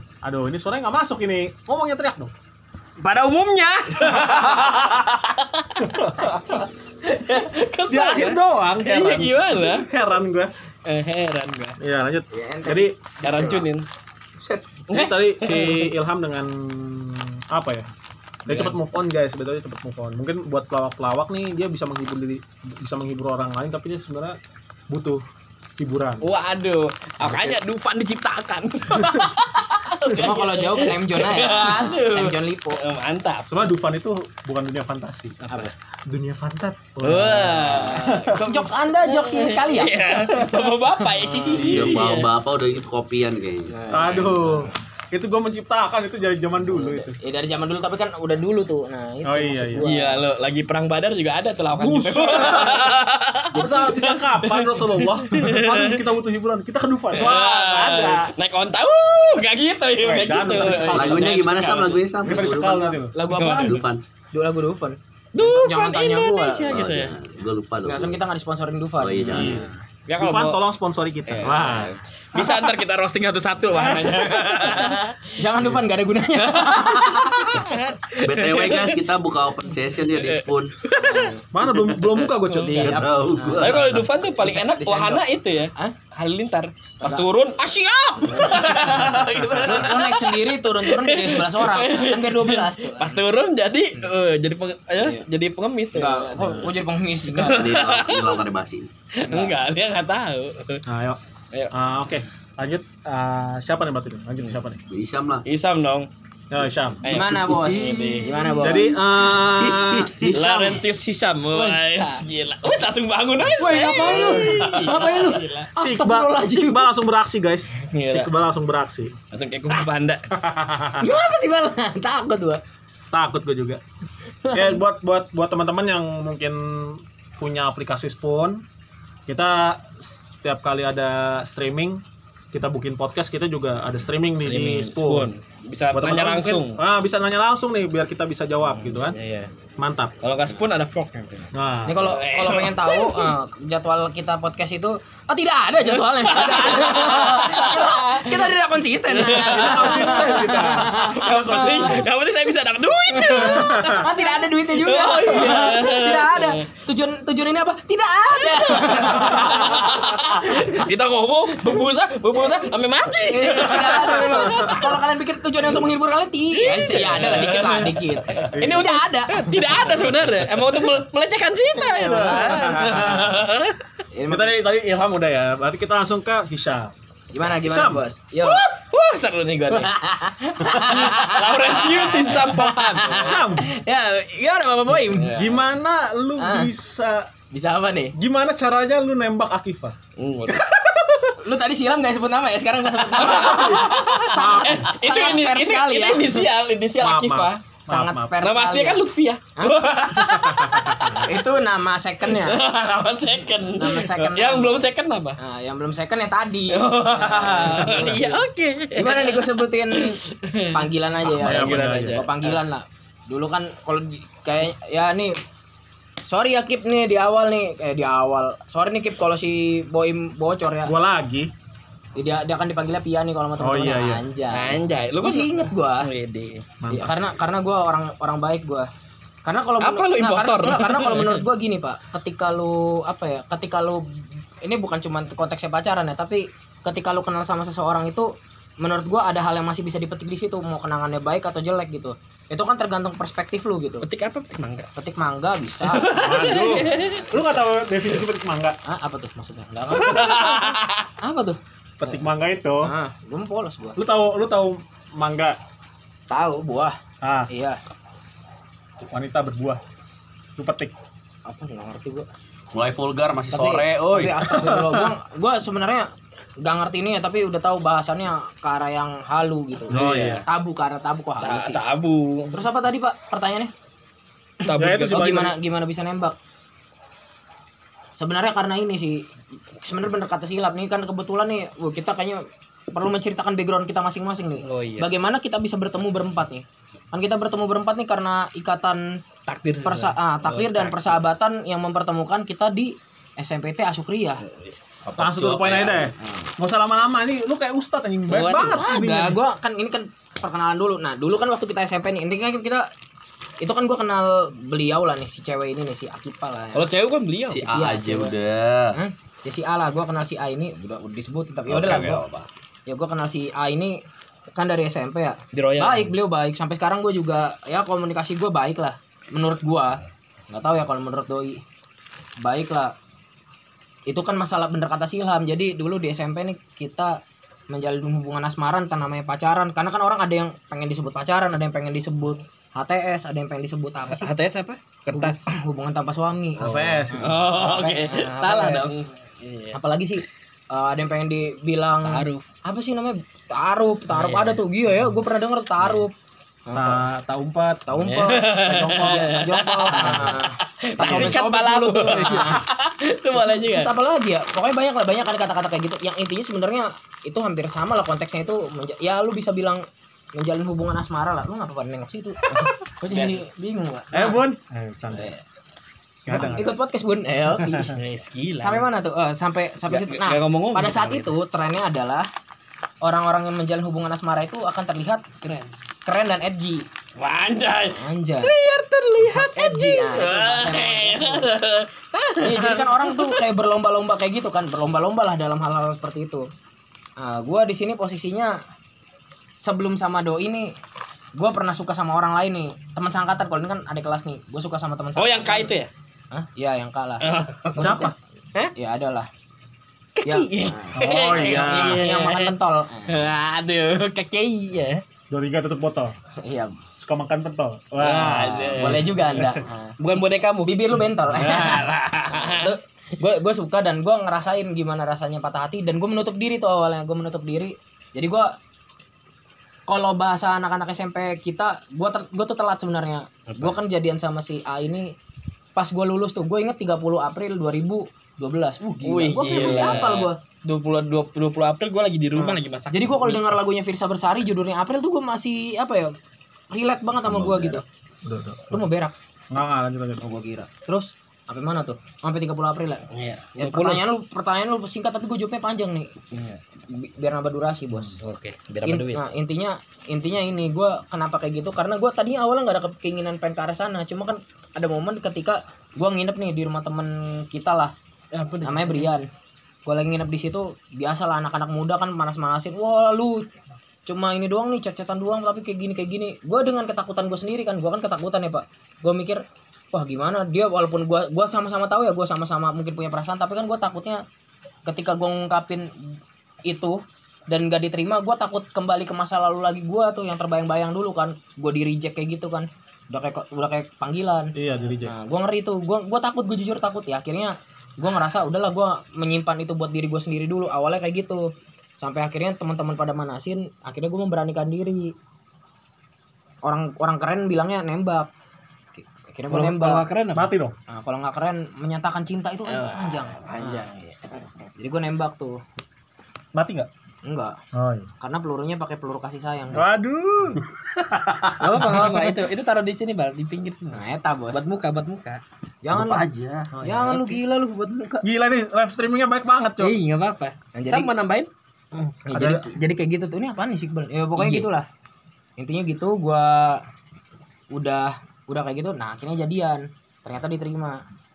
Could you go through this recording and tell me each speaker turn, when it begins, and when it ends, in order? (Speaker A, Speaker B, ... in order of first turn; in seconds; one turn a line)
Speaker A: 0.2-2.3
Speaker B: 3.0-9.9
Speaker A: 5.8-6.3
Speaker A: 7.9-10.5
Speaker B: 10.9-11.8
Speaker A: 11.8-13.0
Speaker C: 12.3-13.6
Speaker B: 13.2-13.9
Speaker C: 14.4-14.7
Speaker B: 14.9-15.9
Speaker A: 14.9-17.9
Speaker A: 18.5-24.4
Speaker B: 18.5-18.8
Speaker A: 24.9-25.2
Speaker A: 25.8-26.3
Speaker B: 26.2-33.6
Speaker A: 27.2-27.6
Speaker A: 29.0-29.2
Speaker C: 30.1-32.8
Speaker A: 33.5-35.4
Speaker B: 35.4-35.7
Speaker A: 36.1-38.4
Speaker B: 37.0-42.3
Speaker C: 38.0-40.1
Speaker D: 41.5-44.2
Speaker A: 41.6-41.9
Speaker C: 43.7-44.6
Speaker A: 43.9-47.2
Speaker C: 46.7-50.2
Speaker A: 49.2-49.9
Speaker B: 49.8-56.0
Speaker A: 51.8-52.9
Speaker C: 52.4-52.9
Speaker A: 53.5-58.3
Speaker B: 57.1-62.0
Speaker A: 60.0-61.4
Speaker C: 60.5-61.1
Speaker D: 60.9-64.0
Speaker A: 62.2-63.1
Speaker C: 63.1-66.8
Speaker B: 63.3-63.8
Speaker B: 65.3-67.2
Speaker D: 66.7-68.2
Speaker C: 67.8-69.7
Speaker D: 69.0-69.7
Speaker B: 69.3-70.6
Speaker A: 69.3-69.7
Speaker A: 70.2-72.6
Speaker B: 71.3-75.2
Speaker D: 71.6-71.9
Speaker A: 73.8-74.8
Speaker C: 75.4-77.7
Speaker B: 76.6-79.0
Speaker D: 78.2-80.8
Speaker B: 80.1-81.3
Speaker C: 80.9-81.4
Speaker A: 81.5-83.1
Speaker B: 81.9-83.0
Speaker C: 82.7-83.8
Speaker D: 82.8-84.1
Speaker B: 83.5-96.7
Speaker C: 84.3-86.0
Speaker C: 88.2-89.0
Speaker A: 89.4-89.7
Speaker C: 89.6-93.2
Speaker C: 95.0-95.2
Speaker C: 95.9-97.8
Speaker B: 97.3-98.4
Speaker D: 97.5-98.9
Speaker B: 99.2-100.8
Speaker C: 99.3-99.6
Speaker A: 100.9-101.2
Speaker A: 101.7-104.8
Speaker D: 104.9-105.5
Speaker B: 105.5-106.1
Speaker A: 106.5-107.0
Speaker B: 107.0-108.8
Speaker C: 107.1-109.0
Speaker D: 107.3-108.4
Speaker A: 108.6-110.7
Speaker D: 109.3-110.8
Speaker B: 110.3-115.7
Speaker C: 111.5-112.2
Speaker C: 113.6-116.9
Speaker A: 114.1-114.6
Speaker A: 115.8-119.2
Speaker B: 117.9-118.3
Speaker B: 119.3-120.3
Speaker A: 120.3-121.0
Speaker C: 121.0-122.6
Speaker A: 123.1-123.8
Speaker A: 124.5-128.6
Speaker A: 129.3-132.0
Speaker A: 132.5-135.3
Speaker B: 134.4-136.8
Speaker A: 135.9-139.2
Speaker B: 138.7-139.5
Speaker A: 139.8-140.2
Speaker B: 140.2-143.3
Speaker A: 141.5-142.1
Speaker C: 141.9-152.0
Speaker B: 145.8-148.5
Speaker B: 149.1-156.6
Speaker A: 149.4-152.0
Speaker C: 153.3-160.8
Speaker A: 153.4-154.0
Speaker B: 158.4-165.0
Speaker C: 163.1-169.9
Speaker B: 166.5-173.8
Speaker A: 168.5-168.9
Speaker C: 171.8-172.8
Speaker A: 172.4-173.4
Speaker C: 174.1-174.6
Speaker A: 174.3-176.9
Speaker C: 177.3-178.7
Speaker A: 177.4-178.0
Speaker B: 178.4-180.0
Speaker C: 179.7-185.5
Speaker B: 180.7-183.4
Speaker A: 182.4-183.7
Speaker B: 185.1-185.5
Speaker A: 185.3-187.3
Speaker C: 186.4-186.7
Speaker C: 187.5-188.2
Speaker A: 188.2-190.0
Speaker B: 190.2-190.6
Speaker A: 190.6-191.2
Speaker C: 191.4-196.4
Speaker B: 193.1-197.6
Speaker A: 193.3-194.8
Speaker A: 197.0-198.3
Speaker C: 197.9-199.0
Speaker B: 198.4-201.3
Speaker C: 199.6-200.4
Speaker A: 200.6-201.0
Speaker C: 201.0-202.6
Speaker B: 202.3-205.4
Speaker C: 203.8-204.8
Speaker C: 205.4-208.4
Speaker B: 206.7-212.6
Speaker A: 207.6-208.3
Speaker C: 208.9-215.4
Speaker A: 211.3-212.2
Speaker C: 216.3-220.9
Speaker A: 220.9-221.5
Speaker C: 222.2-226.1
Speaker A: 223.6-224.2
Speaker B: 224.5-226.7
Speaker A: 226.8-227.2
Speaker C: 226.9-228.9
Speaker C: 229.4-234.1
Speaker B: 229.8-231.4
Speaker C: 234.6-244.1
Speaker B: 244.0-244.9
Speaker C: 245.0-246.7
Speaker B: 245.8-247.3
Speaker A: 246.2-248.8
Speaker C: 248.9-252.2
Speaker B: 249.9-251.1
Speaker A: 252.0-252.9
Speaker C: 252.8-254.0
Speaker A: 254.0-255.6
Speaker C: 256.3-257.0
Speaker A: 257.2-257.5
Speaker C: 257.5-257.8
Speaker A: 259.0-259.8
Speaker A: 260.6-260.9
Speaker C: 261.5-262.3
Speaker D: 262.7-264.5
Speaker C: 263.5-266.1
Speaker A: 264.5-265.1
Speaker C: 266.6-271.8
Speaker A: 269.9-270.4
Speaker B: 269.9-270.4
Speaker B: 271.4-272.5
Speaker C: 272.5-273.7
Speaker B: 274.6-275.5
Speaker A: 274.7-275.5
Speaker C: 275.1-276.4
Speaker C: 278.2-279.2
Speaker C: 279.8-289.2
Speaker B: 284.6-285.1
Speaker B: 289.5-291.2
Speaker C: 289.8-294.4
Speaker B: 294.5-295.0
Speaker D: 295.1-296.1
Speaker A: 295.2-299.4
Speaker B: 298.3-298.9
Speaker C: 298.7-302.9
Speaker C: 303.6-306.9
Speaker B: 306.8-307.8
Speaker D: 307.5-309.0
Speaker C: 307.7-308.3
Speaker C: 308.9-312.2
Speaker D: 311.7-312.5
Speaker C: 312.9-314.0
Speaker C: 314.6-320.0
Speaker B: 315.5-316.1
Speaker C: 320.5-321.6
Speaker C: 322.4-322.9
Speaker C: 324.1-327.2
Speaker C: 327.7-334.3
Speaker B: 334.1-335.5
Speaker C: 335.1-338.9
Speaker A: 336.6-337.4
Speaker B: 336.7-339.8
Speaker C: 339.7-346.1
Speaker B: 342.0-342.5
Speaker B: 344.1-344.6
Speaker C: 346.7-347.0
Speaker A: 346.7-347.9
Speaker C: 347.9-352.6
Speaker B: 348.0-353.9
Speaker A: 351.0-351.4
Speaker A: 352.1-352.6
Speaker C: 353.4-359.8
Speaker C: 360.4-364.4
Speaker B: 363.1-363.4
Speaker A: 364.1-365.3
Speaker C: 365.1-365.4
Speaker A: 366.3-366.7
Speaker C: 366.3-368.0
Speaker A: 367.6-367.9
Speaker B: 367.9-368.9
Speaker C: 368.6-372.3
Speaker B: 369.9-371.3
Speaker C: 373.0-375.4
Speaker C: 376.1-376.9
Speaker B: 377.2-383.4
Speaker C: 377.9-378.5
Speaker C: 379.2-381.5
Speaker C: 382.4-386.5
Speaker C: 387.2-388.6
Speaker C: 389.6-390.7
Speaker C: 391.4-395.7
Speaker B: 395.2-395.9
Speaker C: 396.3-398.1
Speaker B: 397.2-398.7
Speaker A: 397.8-398.1
Speaker C: 398.8-399.3
Speaker B: 400.2-405.0
Speaker C: 400.2-403.2
Speaker A: 401.0-402.1
Speaker A: 405.3-406.1
Speaker C: 406.4-406.8
Speaker A: 407.0-409.6
Speaker B: 408.0-412.8
Speaker C: 408.2-410.0
Speaker C: 410.6-418.5
Speaker C: 419.9-425.1
Speaker C: 425.8-430.4
Speaker B: 429.0-433.6
Speaker A: 429.5-430.0
Speaker C: 432.4-436.1
Speaker C: 436.7-437.8
Speaker D: 437.2-437.8
Speaker A: 438.2-438.9
Speaker C: 438.7-439.1
Speaker A: 439.5-440.2
Speaker C: 440.2-443.1
Speaker B: 443.1-444.0
Speaker C: 443.6-446.1
Speaker B: 446.3-446.6
Speaker C: 446.9-448.2
Speaker B: 448.2-449.2
Speaker C: 448.8-457.9
Speaker B: 458.3-459.1
Speaker C: 458.6-459.3
Speaker C: 459.9-463.5
Speaker C: 464.1-474.2
Speaker C: 474.9-475.9
Speaker C: 476.7-495.1
Speaker A: 484.6-485.1
Speaker C: 496.6-498.3
Speaker C: 499.0-500.1
Speaker B: 499.5-500.5
Speaker A: 500.3-500.8
Speaker C: 500.9-503.9
Speaker B: 502.7-504.4
Speaker C: 504.8-505.6
Speaker A: 506.5-506.9
Speaker C: 507.2-507.6
Speaker A: 507.7-508.1
Speaker C: 508.2-509.9
Speaker A: 509.7-510.6
Speaker A: 511.6-512.4
Speaker B: 511.6-515.4
Speaker C: 513.9-514.6
Speaker C: 515.8-516.3
Speaker D: 515.9-516.7
Speaker B: 516.8-517.4
Speaker C: 516.8-518.2
Speaker A: 518.2-520.0
Speaker B: 519.8-521.5
Speaker C: 520.8-521.1
Speaker C: 522.0-524.9
Speaker A: 522.3-522.7
Speaker B: 524.4-524.7
Speaker C: 525.6-526.8
Speaker C: 527.7-531.0